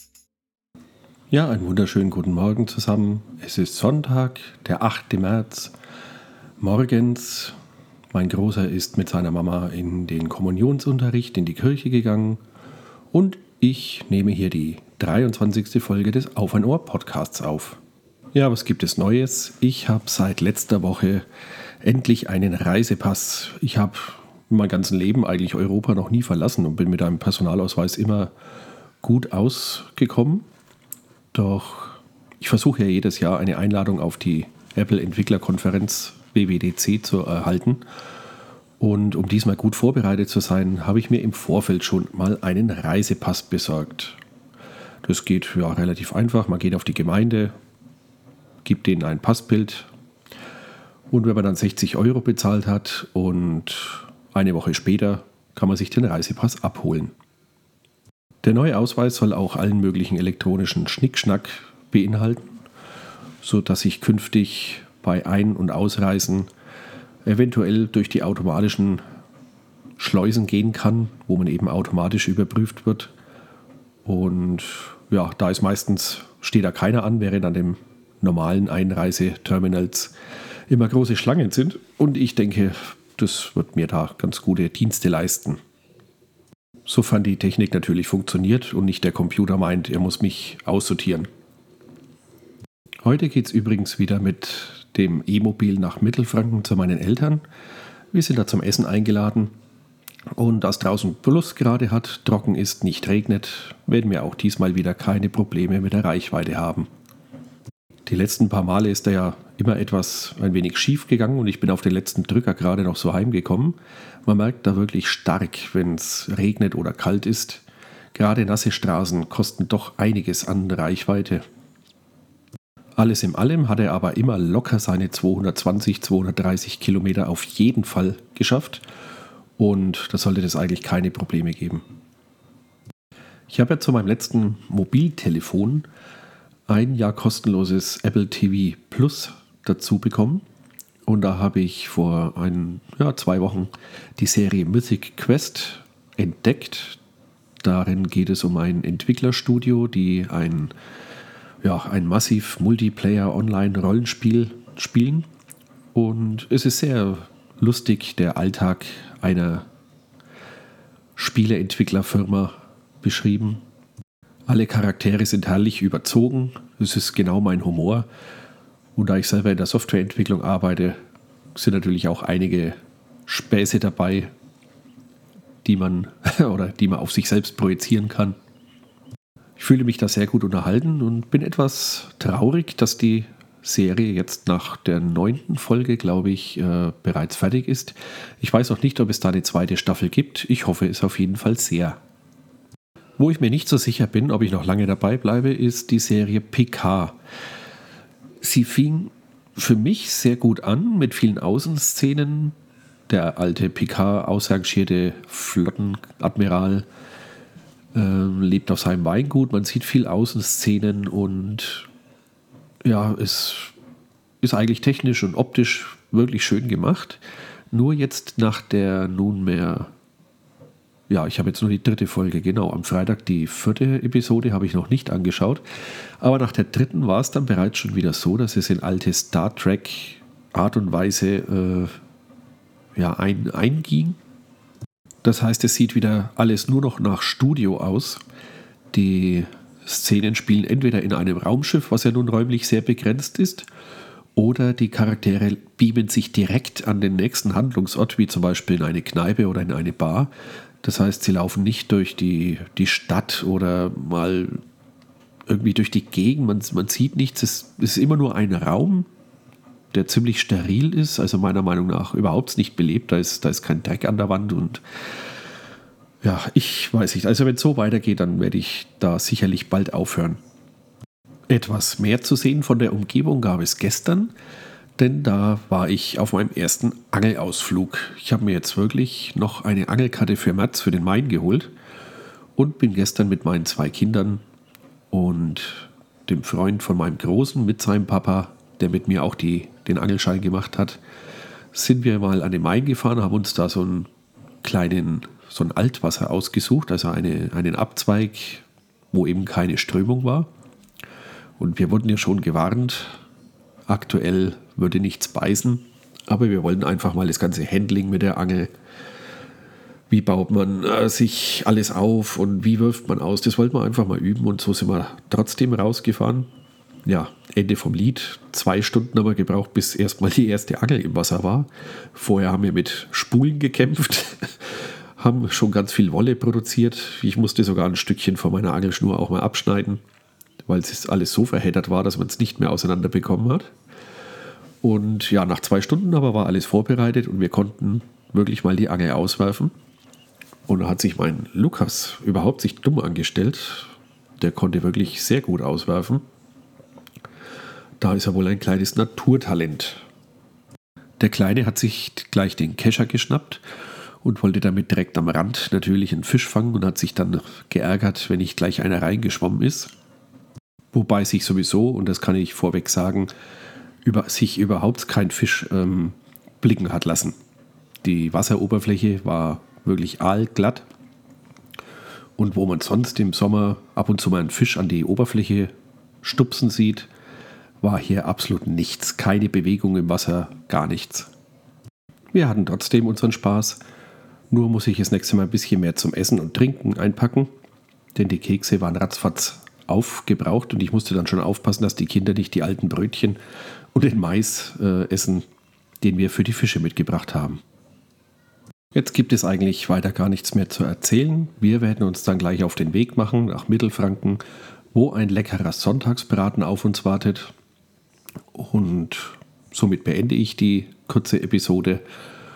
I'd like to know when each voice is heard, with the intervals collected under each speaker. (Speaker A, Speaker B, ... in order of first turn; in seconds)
Speaker A: 1.3-5.7, 6.6-7.5, 8.1-12.4, 13.1-17.8, 18.3-21.2, 21.8-28.3, 29.0-30.4, 31.3-37.8, 38.8-44.2, 45.0-47.5, 48.6-49.9, 51.1-57.1, 58.4-62.5, 63.4-66.5, 67.2-69.0, 70.0-73.1, 74.0-80.1, 80.7-85.6, 86.9-91.3, 93.0-97.4, 98.1-99.5, 100.3-106.9, 108.1-121.4, 123.0-128.8, 129.6-131.8, 133.5-135.9, 136.7-140.4, 141.1-147.0, 147.6-150.7, 151.6-155.2, 155.9-159.7, 161.2-163.6, 164.5-168.1, 168.9-171.0, 171.5-174.3, 175.6-178.3, 179.6-192.0, 193.2-197.2, 198.4-202.5, 203.1-206.8, 207.9-211.9, 212.8-213.7, 214.4-217.2, 217.7-219.9, 221.1-225.6, 226.2-231.9, 232.9-234.2, 235.2-238.2, 238.9-243.7, 244.3-250.3, 250.8-254.6, 255.5-259.1, 259.9-264.8, 266.2-270.4, 271.5-274.3, 275.0-281.7, 282.6-284.4, 285.1-291.0, 291.7-294.1, 294.6-300.5, 301.6-303.2, 303.9-308.7, 310.1-316.5, 317.0-330.0, 330.6-333.7, 334.8-339.7, 340.7-346.2, 348.0-350.0, 351.2-353.6, 354.2-359.9, 360.9-363.3, 364.0-367.3, 368.0-370.9, 372.4-377.1, 377.8-381.3, 382.3-383.8, 384.5-387.5, 388.1-393.4, 393.9-395.4, 396.0-397.6, 398.9-404.4, 404.9-407.5, 408.5-412.0